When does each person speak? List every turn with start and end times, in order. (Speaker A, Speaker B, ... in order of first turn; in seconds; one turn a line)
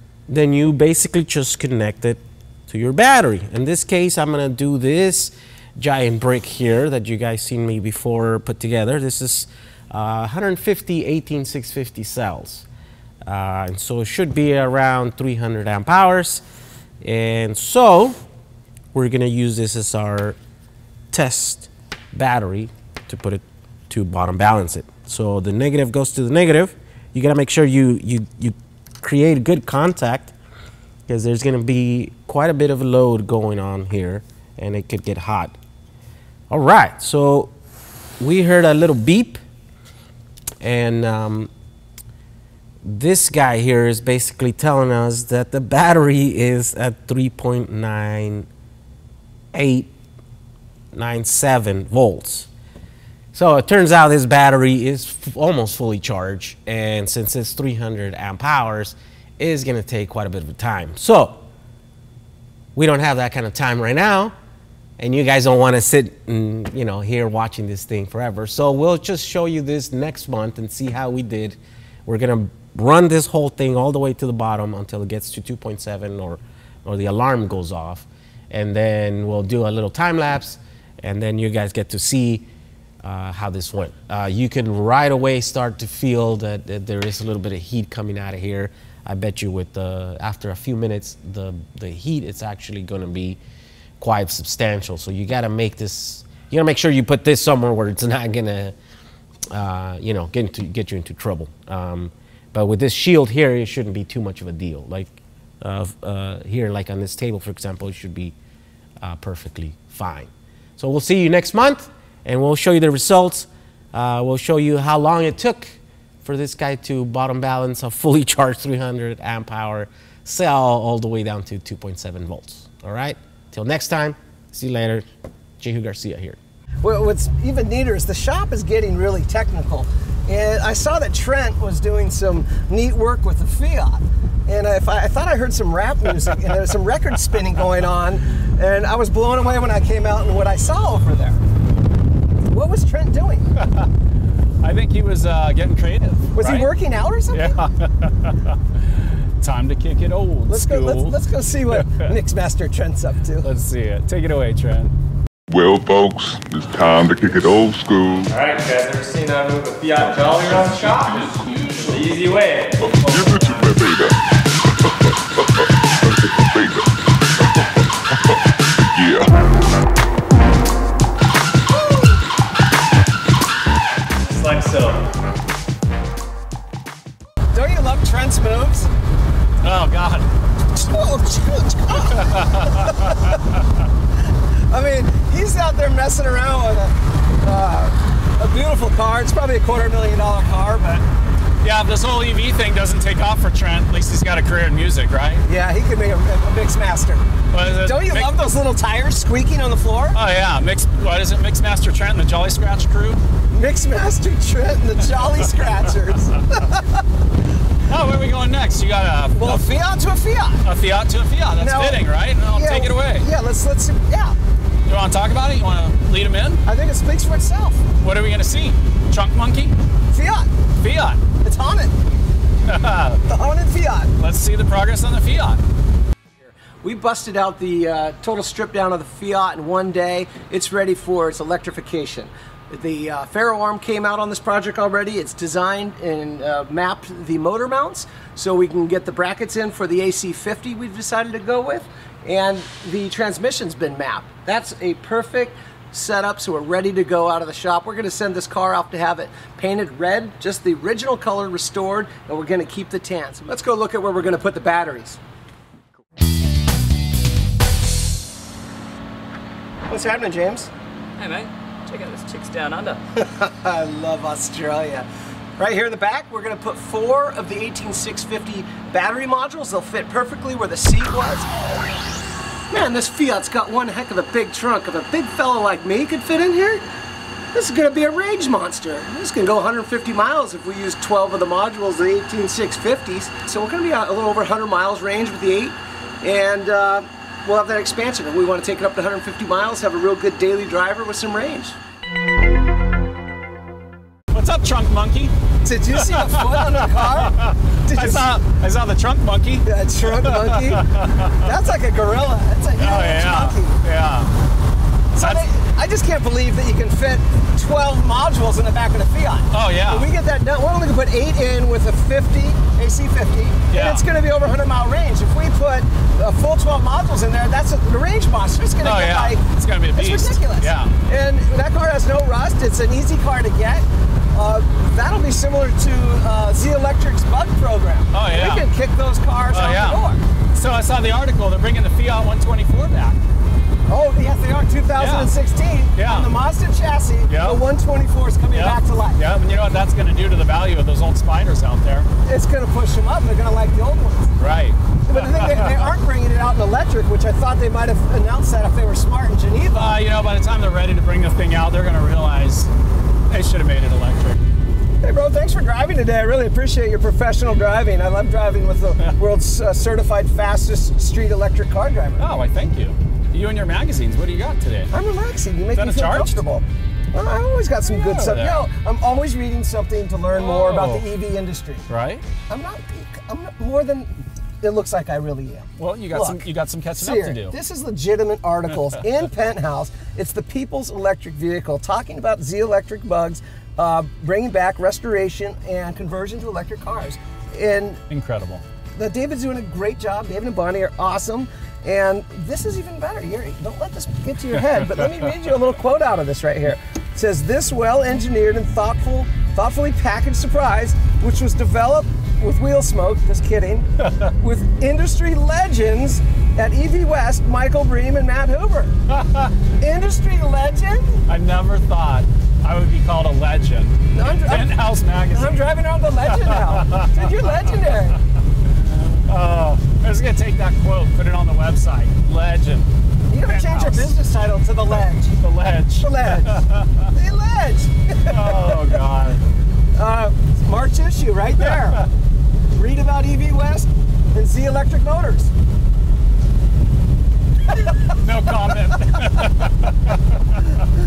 Speaker A: 0.3-12.7
Speaker A: 13.3-16.4
Speaker A: 17.0-18.2
Speaker A: 18.9-20.4
Speaker A: 21.1-30.3
Speaker A: 31.1-35.6
Speaker A: 36.5-37.5
Speaker A: 38.2-39.4
Speaker A: 40.6-41.5
Speaker A: 42.8-48.5
Speaker A: 49.5-49.9
Speaker A: 50.9-52.5
Speaker A: 53.3-61.4
Speaker A: 62.8-64.3
Speaker A: 65.0-82.5
Speaker A: 83.0-93.4
Speaker A: 94.0-98.8
Speaker A: 99.5-108.3
Speaker A: 109.0-125.0
Speaker A: 125.6-126.4
Speaker B: 126.8-141.4
Speaker B: 142.5-143.5
Speaker C: 143.6-143.9
Speaker C: 144.6-146.7
Speaker B: 146.3-147.6
Speaker C: 147.3-151.2
Speaker B: 150.5-153.5
Speaker C: 151.7-152.1
Speaker C: 153.4-154.9
Speaker D: 155.5-158.3
Speaker E: 158.3-163.7
Speaker C: 161.0-162.0
Speaker D: 162.8-164.2
Speaker D: 164.8-168.4
Speaker D: 168.9-169.3
Speaker B: 171.9-172.1
Speaker C: 174.2-175.0
Speaker B: 177.5-178.9
Speaker C: 179.6-180.3
Speaker B: 180.8-183.4
Speaker C: 182.1-183.6
Speaker B: 184.7-191.0
Speaker C: 191.6-195.4
Speaker B: 195.5-200.2
Speaker C: 197.5-198.3
Speaker C: 200.2-203.2
Speaker B: 203.5-207.0
Speaker C: 207.8-209.7
Speaker B: 209.3-210.6
Speaker C: 210.6-213.3
Speaker B: 211.6-214.4
Speaker C: 214.9-216.6
Speaker B: 216.7-217.8
Speaker C: 218.0-219.8
Speaker B: 220.1-220.5
Speaker C: 220.8-221.2
Speaker B: 221.4-222.0
Speaker C: 222.7-223.2
Speaker B: 223.3-224.1
Speaker C: 224.2-225.6
Speaker B: 226.8-255.2
Speaker B: 259.9-260.7
Speaker E: 261.2-263.0
Speaker B: 263.2-265.1
Speaker B: 265.6-271.5
Speaker B: 272.7-276.9
Speaker B: 277.5-291.8
Speaker C: 294.3-295.4
Speaker B: 295.6-298.4
Speaker C: 295.9-301.4
Speaker B: 299.6-303.8
Speaker C: 302.8-304.3
Speaker B: 305.1-319.4
Speaker C: 305.2-305.5
Speaker C: 309.5-310.1
Speaker C: 313.7-314.0
Speaker C: 318.8-320.9
Speaker B: 319.9-330.2
Speaker C: 328.1-328.6
Speaker C: 329.5-330.0
Speaker C: 330.5-333.2
Speaker B: 333.9-339.4
Speaker C: 335.0-335.3
Speaker C: 335.9-336.3
Speaker C: 337.3-337.6
Speaker C: 338.5-342.1
Speaker B: 342.2-344.4
Speaker C: 344.4-345.9
Speaker B: 345.1-350.0
Speaker C: 349.7-352.7
Speaker C: 353.3-354.5
Speaker B: 355.0-362.3
Speaker C: 362.2-364.9
Speaker B: 364.9-371.9
Speaker C: 365.8-366.4
Speaker C: 367.9-368.6
Speaker C: 370.3-371.1
Speaker C: 371.9-372.2
Speaker B: 372.5-388.0
Speaker C: 375.8-377.6
Speaker C: 388.1-388.6
Speaker B: 389.0-403.9
Speaker C: 404.0-404.3
Speaker B: 404.4-409.0
Speaker C: 409.1-409.5
Speaker B: 409.8-411.2
Speaker C: 411.3-415.6
Speaker B: 414.1-414.8
Speaker B: 415.3-418.2
Speaker C: 416.3-417.9
Speaker C: 419.1-422.9
Speaker B: 423.3-425.4
Speaker C: 423.5-424.1
Speaker C: 425.3-427.1
Speaker B: 426.0-429.0
Speaker C: 428.2-429.4
Speaker B: 429.9-432.1
Speaker B: 432.7-435.5
Speaker B: 437.7-439.2
Speaker C: 438.1-440.6